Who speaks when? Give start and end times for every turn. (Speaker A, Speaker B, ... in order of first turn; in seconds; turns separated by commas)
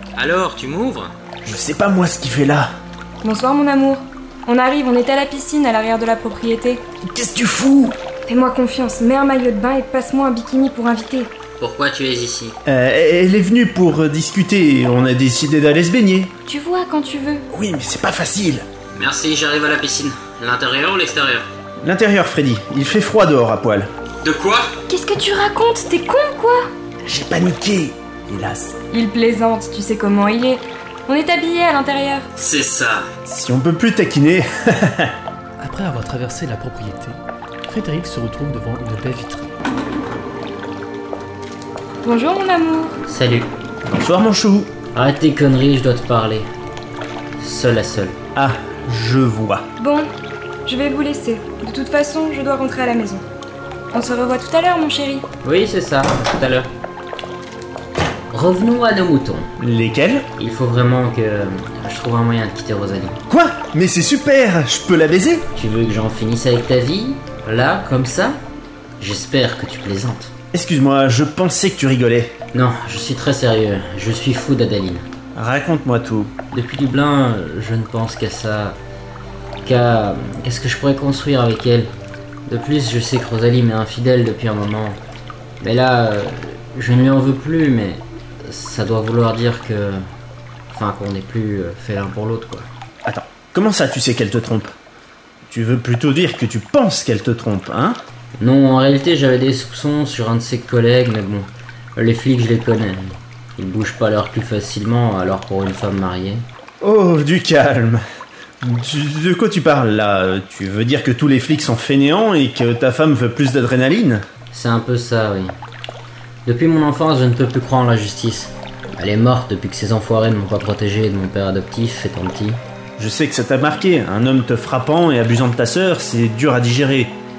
Speaker A: 0.1-1.1, Speaker B: 1.4-2.7, Speaker C: 3.2-6.8, Speaker B: 7.0-7.9, Speaker C: 8.3-11.3, Speaker A: 11.6-12.6, Speaker B: 12.7-16.3, Speaker C: 16.5-17.4, Speaker B: 17.5-18.6, Speaker A: 18.9-21.5, Speaker B: 21.8-23.9, Speaker A: 24.2-24.7, Speaker C: 24.9-26.7, Speaker B: 27.1-28.8, Speaker C: 28.9-32.3, Speaker A: 32.4-33.1, Speaker B: 33.3-35.1, Speaker D: 35.6-39.5, Speaker C: 42.0-43.0, Speaker A: 43.1-43.5, Speaker B: 43.9-44.7, Speaker A: 44.9-46.5, Speaker A: 47.4-48.2, Speaker B: 48.3-49.6, Speaker C: 49.8-50.1, Speaker C: 50.7-53.2, Speaker C: 53.9-55.2, Speaker A: 55.4-56.7, Speaker A: 58.3-59.5, Speaker B: 59.6-60.3, Speaker A: 60.4-63.2, Speaker B: 63.3-65.4, Speaker A: 65.5-68.4, Speaker A: 69.0-70.3, Speaker B: 70.5-72.3, Speaker A: 72.5-75.0, Speaker B: 75.3-76.3, Speaker A: 76.5-78.8, Speaker A: 79.6-81.9, Speaker A: 82.5-85.0, Speaker A: 85.6-90.0, Speaker A: 90.7-92.7, Speaker B: 93.0-94.7, Speaker B: 95.5-98.0, Speaker A: 98.4-106.5, Speaker B: 106.8-108.0, Speaker B: 108.6-114.2, Speaker A: 114.5-115.5, Speaker A: 116.5-122.6, Speaker B: 123.0-127.1